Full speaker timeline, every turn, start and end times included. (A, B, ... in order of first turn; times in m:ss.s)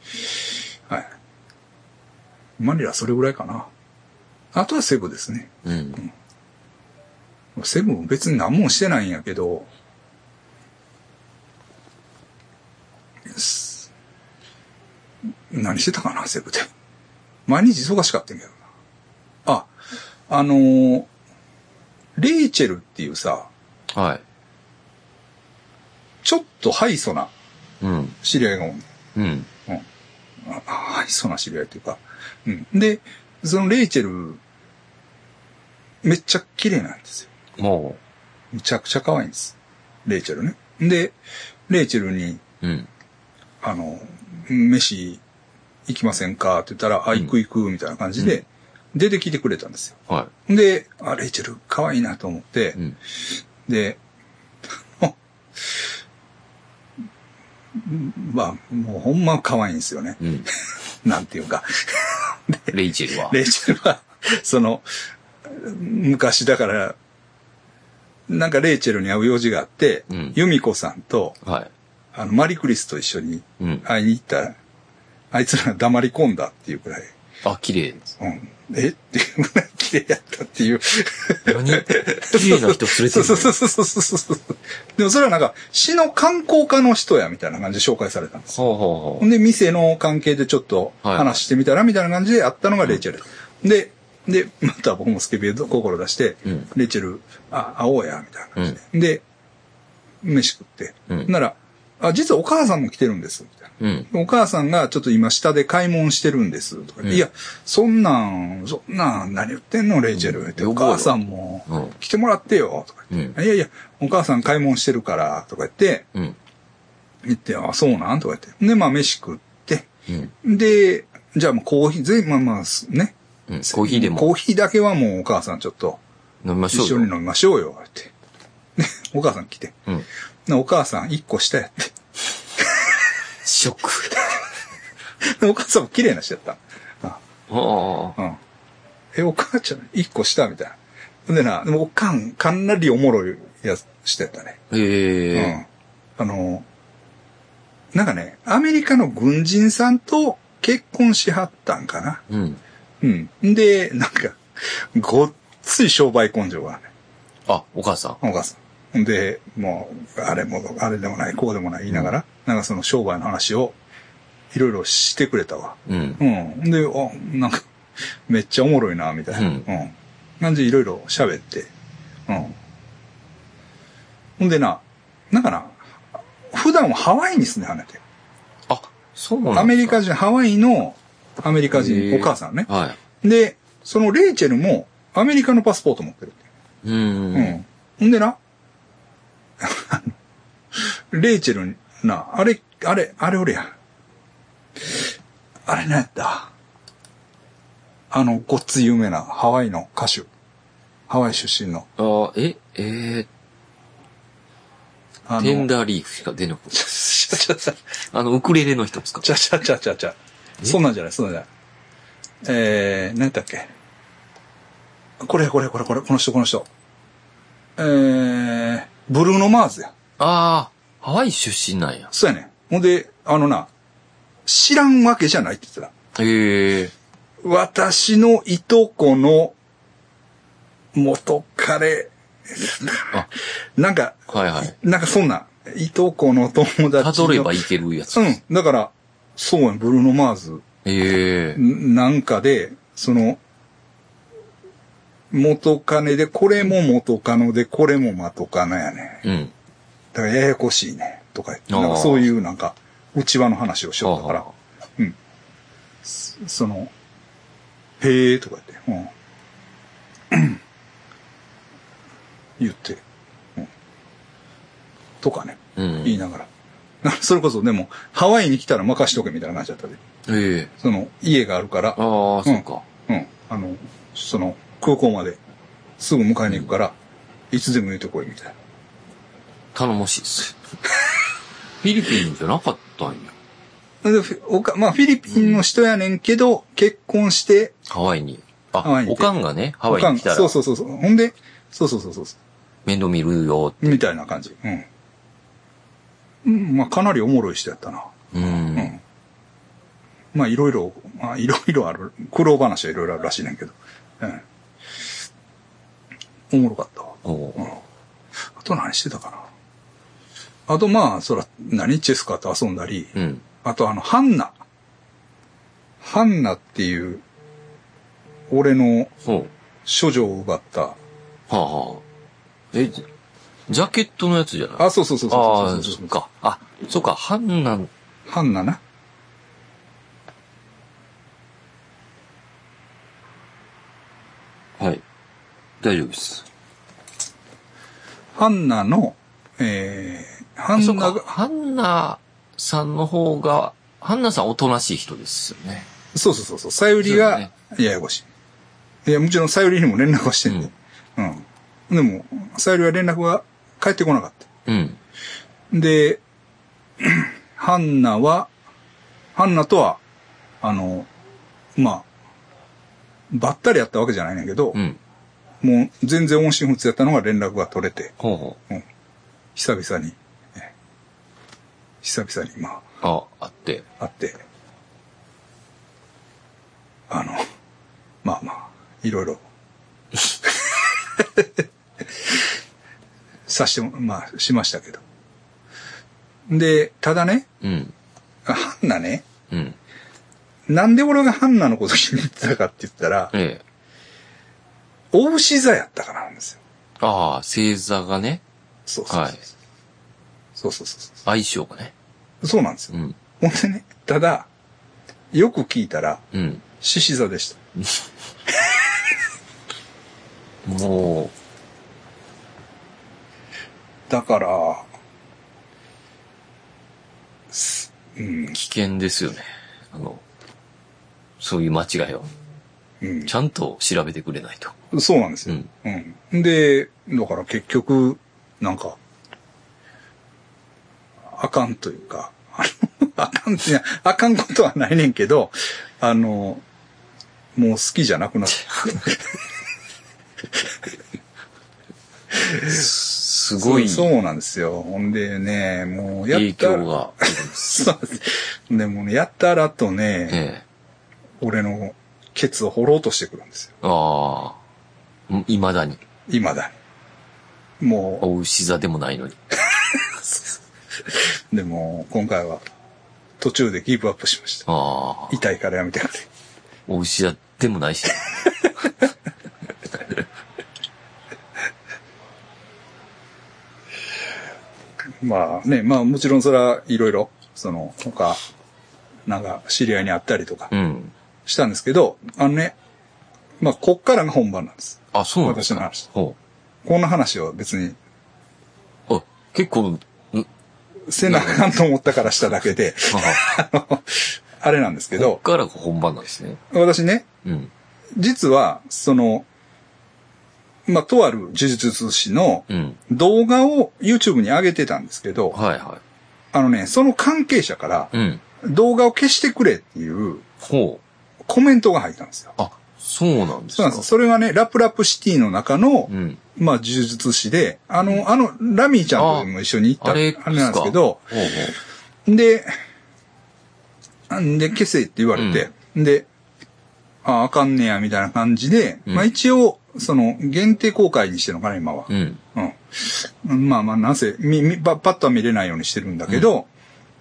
0:02.6-0:03.7 A
0:04.5-0:06.1 A
0:05.6-0:06.0 B
0:07.6-0:09.7 A
0:13.3-0:13.9 A
0:15.5-0:16.7 A
0:17.5-0:18.6 A
0:19.4-0:19.7 A
0:20.3-0:21.1 A
0:22.2-0:23.5 A
0:23.9-0:24.2 B
0:26.2-0:27.3 A
0:27.8-0:28.2 B
0:28.2-0:28.8 A
0:29.1-0:29.5 B
0:30.4-0:34.4 A
0:36.0-0:37.3 A
0:37.6-0:38.0 B
0:38.5-0:41.1 A
0:41.7-0:42.4 A
0:42.6-0:42.9 B
0:43.6-0:45.2 A
0:45.9-0:52.8 A
0:48.2-0:48.4 B
0:53.7-0:54.0 A
0:57.8-1:00.2 A
1:00.2-1:00.5 B
1:01.0-1:04.8 A
1:02.7-1:03.4 B
1:05.5-1:07.0 A
1:08.3-1:11.4 A
1:10.1-1:10.4 B
1:11.4-1:11.7 B
1:12.1-1:14.6 A
1:13.6-1:13.8 B
1:15.3-1:17.1 A
1:17.4-1:18.1 B
1:18.2-1:28.6 A
1:21.4-1:23.5 B
1:28.5-1:29.3 B
1:29.2-1:39.2 A
1:31.0-1:31.4 B
1:40.2-1:56.1 A
1:43.8-1:44.1 B
1:50.1-1:51.2 B
1:51.7-1:51.9 B
1:53.1-1:53.4 B
1:57.2-1:59.9 A
2:00.4-2:06.0 A
2:03.5-2:04.3 B
2:06.4-2:07.1 B
2:06.7-2:08.1 A
2:08.8-2:09.8 A
2:10.5-2:11.9 A
2:13.4-2:14.2 B
2:15.2-2:17.2 A
2:17.5-2:18.2 B
2:19.1-2:24.6 A
2:24.7-2:25.6 B
2:25.3-2:25.6 A
2:26.2-2:26.6 A
2:27.9-2:32.2 A
2:32.3-2:32.6 B
2:33.0-2:36.9 A
2:37.4-2:38.2 B
2:38.2-2:43.8 A
2:44.5-2:47.6 A
2:45.9-2:46.2 B
2:48.3-2:51.7 A
2:49.3-2:49.7 B
2:52.3-2:52.6 A
2:54.4-2:55.8 A
2:56.5-2:58.0 A
2:58.7-3:00.0 B
2:59.5-3:02.7 A
3:01.7-3:03.0 B
3:03.2-3:06.4 A
3:06.8-3:07.6 B
3:07.3-3:08.4 A
3:09.6-3:10.1 A
3:10.7-3:13.7 A
3:15.7-3:16.5 A
3:18.1-3:20.3 A
3:21.1-3:21.9 A
3:22.0-3:23.3 B
3:25.3-3:25.7 A
3:25.4-3:27.0 B
3:26.7-3:27.8 A
3:28.1-3:29.2 B
3:29.2-3:31.5 A
3:32.4-3:33.7 A
3:35.2-3:36.7 A
3:37.8-3:39.9 A
3:40.2-3:42.1 B
3:42.1-3:43.7 A
3:44.5-3:45.9 A
3:46.1-3:46.9 B
3:47.4-3:49.5 A
3:50.9-3:57.6 A
3:54.3-3:54.7 B
3:57.0-3:58.4 B
3:58.1-4:00.6 A
4:00.8-4:01.6 B
4:01.5-4:03.4 A
4:05.3-4:09.2 A
4:09.2-4:09.5 B
4:10.1-4:14.4 A
4:11.7-4:12.3 B
4:14.0-4:14.5 B
4:16.0-4:16.9 A
4:18.0-4:19.1 A
4:20.3-4:20.6 A
4:22.6-4:23.0 A
4:25.2-4:26.5 A
4:25.8-4:26.2 B
4:27.0-4:30.0 A
4:30.2-4:30.7 B
4:30.8-4:35.4 A
4:32.0-4:32.8 B
4:36.0-4:36.9 A
4:37.5-4:38.5 A
4:39.7-4:40.6 B
4:41.8-4:43.3 B
4:44.0-4:47.7 A
4:47.9-4:50.6 B
4:48.8-4:49.3 A
4:49.9-4:52.4 A
4:52.8-4:54.0 B
4:53.8-4:54.9 A
4:56.4-4:59.0 A
4:58.3-4:59.0 B
5:00.3-5:04.4 A
5:06.5-5:07.8 A
5:07.2-5:07.7 B
5:08.6-5:09.5 A
5:10.7-5:14.5 A
5:13.1-5:13.4 B
5:16.0-5:17.2 A
5:18.5-5:19.1 A
5:19.2-5:19.5 B
5:19.8-5:21.0 A
5:21.5-5:22.0 B
5:22.7-5:23.0 B
5:23.7-5:27.9 B
5:24.8-5:26.1 A
5:28.3-5:28.8 A
5:34.8-5:35.0 B
5:35.8-5:36.4 B
5:38.4-5:41.3 A
5:40.8-5:45.9 B
5:46.1-5:48.2 A
5:47.0-5:47.5 B
5:49.0-5:54.5 A
5:54.6-5:55.0 B
5:55.7-5:56.2 A
5:57.0-5:58.5 A
5:59.3-6:00.0 A
6:00.6-6:01.1 A
6:01.8-6:02.1 A
6:03.3-6:04.8 A
6:04.7-6:05.0 B
6:05.6-6:08.1 A
6:08.2-6:08.6 B
6:09.5-6:10.7 A
6:12.0-6:12.8 A
6:13.0-6:13.8 B
6:14.0-6:14.4 A
6:17.1-6:17.4 A
6:18.2-6:19.4 A
6:20.4-6:21.6 A
6:23.5-6:25.0 A
6:26.5-6:27.5 A
6:27.6-6:27.9 B
6:28.4-6:29.2 A
6:29.5-6:29.8 B
6:30.7-6:33.3 A
6:33.3-6:33.6 B
6:35.1-6:36.6 A
6:37.0-6:38.4 B
6:38.9-6:39.4 A
6:39.1-6:39.4 B
6:40.6-6:41.2 A
6:41.2-6:41.9 B
6:42.4-6:44.5 A
6:45.3-6:46.2 A
6:46.3-6:46.6 B
6:46.8-6:47.6 A
6:50.6-6:51.3 B
6:54.1-6:54.8 A
6:57.5-6:58.6 A
6:58.5-7:00.2 B
7:01.4-7:02.3 B
7:03.0-7:03.3 A
7:03.2-7:04.7 B
7:04.9-7:09.0 A
7:11.3-7:16.6 A
7:17.5-7:19.3 A
7:22.5-7:22.8 A
7:22.6-7:24.1 B
7:23.6-7:30.4 A
7:26.3-7:27.9 B
7:30.3-7:30.6 B
7:31.4-7:33.7 A
7:33.8-7:34.6 B
7:35.3-7:36.0 B
7:36.3-7:36.7 A
7:37.8-7:38.2 A
7:38.2-7:39.4 B
7:41.1-7:42.6 A
7:43.4-7:44.6 A
7:44.6-7:45.4 B
7:45.3-7:46.3 A
7:46.9-7:48.3 B
7:55.2-7:58.4 A
7:59.3-8:00.7 A
8:00.7-8:01.1 B
8:01.4-8:02.7 A
8:03.6-8:06.1 A
8:05.1-8:06.4 B
8:06.8-8:08.0 A
8:09.1-8:10.5 B
8:11.1-8:15.4 A
8:11.3-8:11.7 B
8:12.4-8:13.5 B
8:15.1-8:16.6 B
8:16.7-8:17.3 A
8:17.4-8:17.7 B
8:18.2-8:19.4 A
8:20.9-8:25.6 A
8:22.7-8:23.0 B
8:25.5-8:26.0 B
8:26.5-8:30.4 A
8:28.1-8:28.4 B
8:30.6-8:31.0 B
8:31.5-8:32.5 A
8:32.6-8:34.1 B
8:33.7-8:41.3 A
8:36.1-8:36.4 B
8:39.2-8:39.5 B
8:40.0-8:41.8 B
8:42.2-8:42.7 A
8:44.3-8:46.3 A
8:45.3-8:45.7 B
8:47.2-8:56.7 A
8:52.1-8:52.4 B